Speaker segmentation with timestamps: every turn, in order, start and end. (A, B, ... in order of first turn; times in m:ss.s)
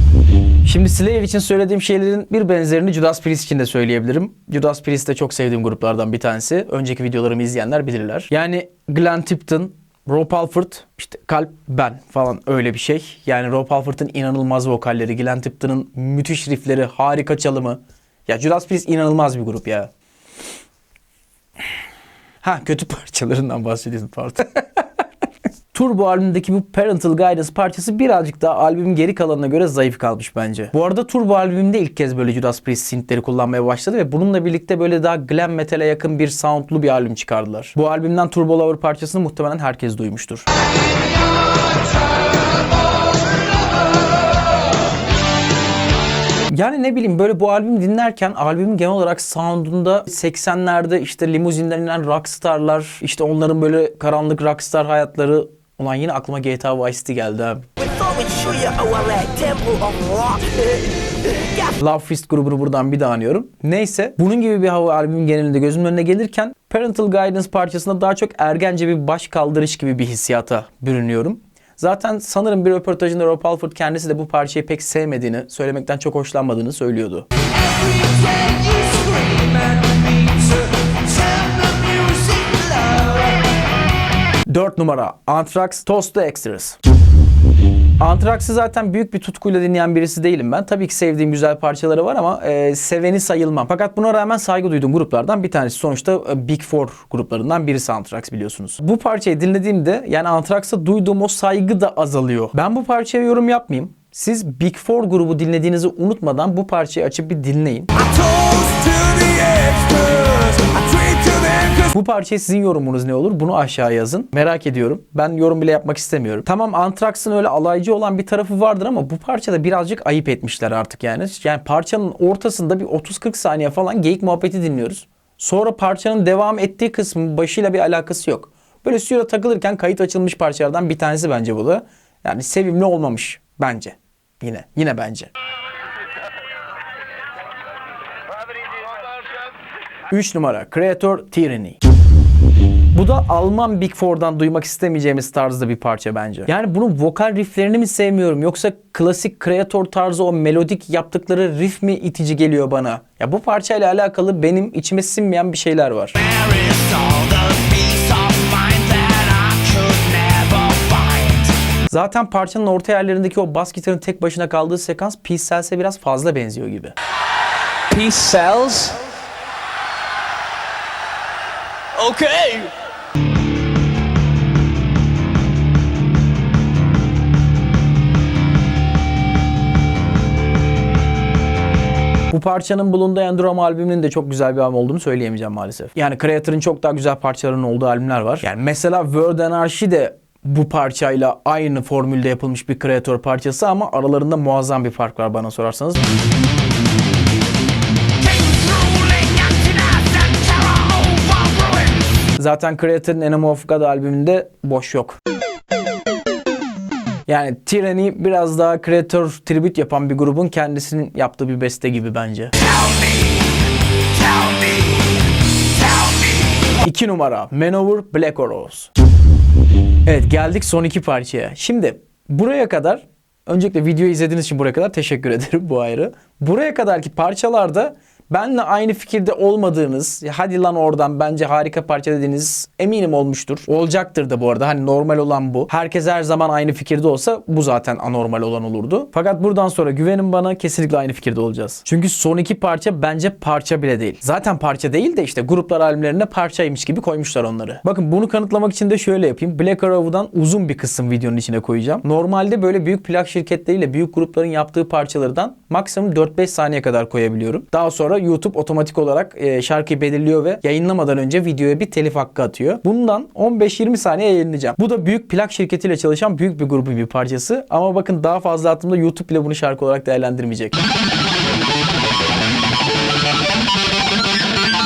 0:00.6-0:19.9 A
0:22.4-0:24.8 A
0:25.7-0:40.5 A
0:46.5-0:57.9 A
0:58.0-1:00.6 B
0:58.1-1:00.8 C
1:01.6-1:17.2 A
1:17.6-1:23.4 C
1:24.4-1:26.8 A
1:28.0-1:48.1 A
1:48.1-1:51.8 B
1:50.1-1:50.5 C
1:51.7-2:15.3 A
2:20.1-2:21.8 A
2:22.9-2:36.3 A
2:36.2-2:41.5 C
2:41.9-2:46.9 A
2:47.9-2:49.0 C
2:51.9-2:52.7 C
3:02.3-3:16.0 A
3:18.2-3:22.0 C
3:22.3-3:25.2 A
3:27.3-3:33.0 A
3:34.3-3:35.1 C
3:34.4-3:34.8 A
3:36.0-3:38.9 A
3:40.0-4:30.8 A